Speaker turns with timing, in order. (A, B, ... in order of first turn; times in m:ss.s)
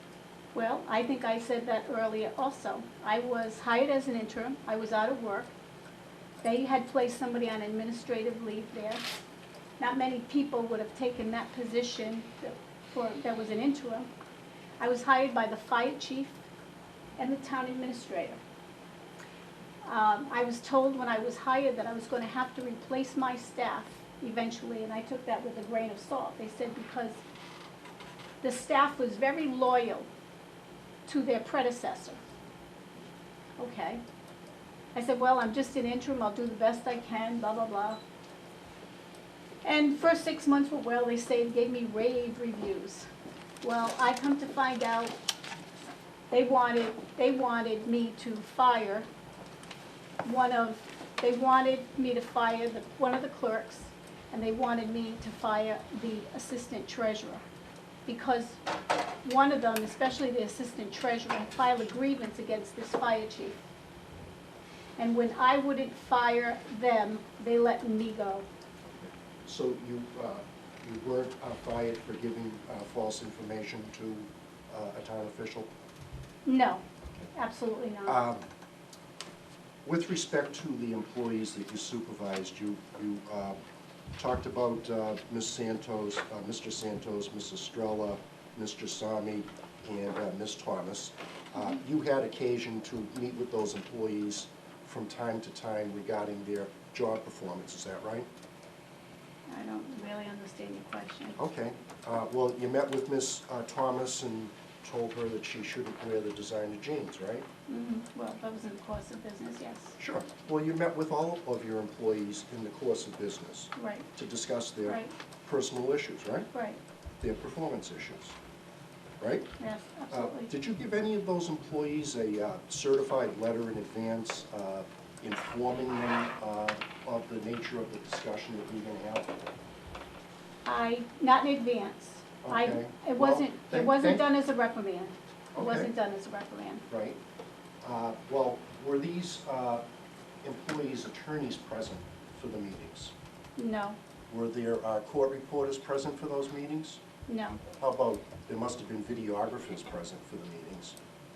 0:00.5-0:05.5 A
0:06.4-0:09.0 A
0:09.8-0:14.1 A
0:14.8-0:16.4 A
0:17.2-0:18.4 A
0:19.8-0:27.2 A
0:28.4-0:30.1 A
0:31.1-0:32.2 A
0:33.6-0:34.0 A
0:35.0-0:38.0 A
0:39.6-0:43.1 A
0:43.6-0:45.2 A
0:46.3-0:49.1 A
0:50.2-0:57.4 A
0:58.1-0:58.6 A
0:59.2-1:03.6 A
1:05.0-1:08.5 A
1:09.0-1:15.7 B
1:16.4-1:16.8 A
1:17.3-1:18.2 A
1:18.1-1:18.5 B
1:19.8-1:23.6 B
1:24.2-1:38.3 B
1:39.5-1:41.4 A
1:41.4-1:47.5 B
1:47.7-1:50.0 A
1:50.0-1:56.5 B
1:53.8-1:54.1 A
1:54.8-1:55.1 A
1:56.5-1:56.8 A
1:57.2-1:58.4 B
1:59.2-1:59.5 B
1:59.6-2:00.5 A
2:00.1-2:09.3 B
2:10.6-2:16.8 A
2:12.4-2:14.2 B
2:15.6-2:15.9 B
2:16.9-2:17.2 B
2:17.8-2:19.8 B
2:20.4-2:23.1 B
2:23.6-2:24.0 A
2:24.3-2:27.0 B
2:27.3-2:27.6 A
2:27.7-2:31.0 B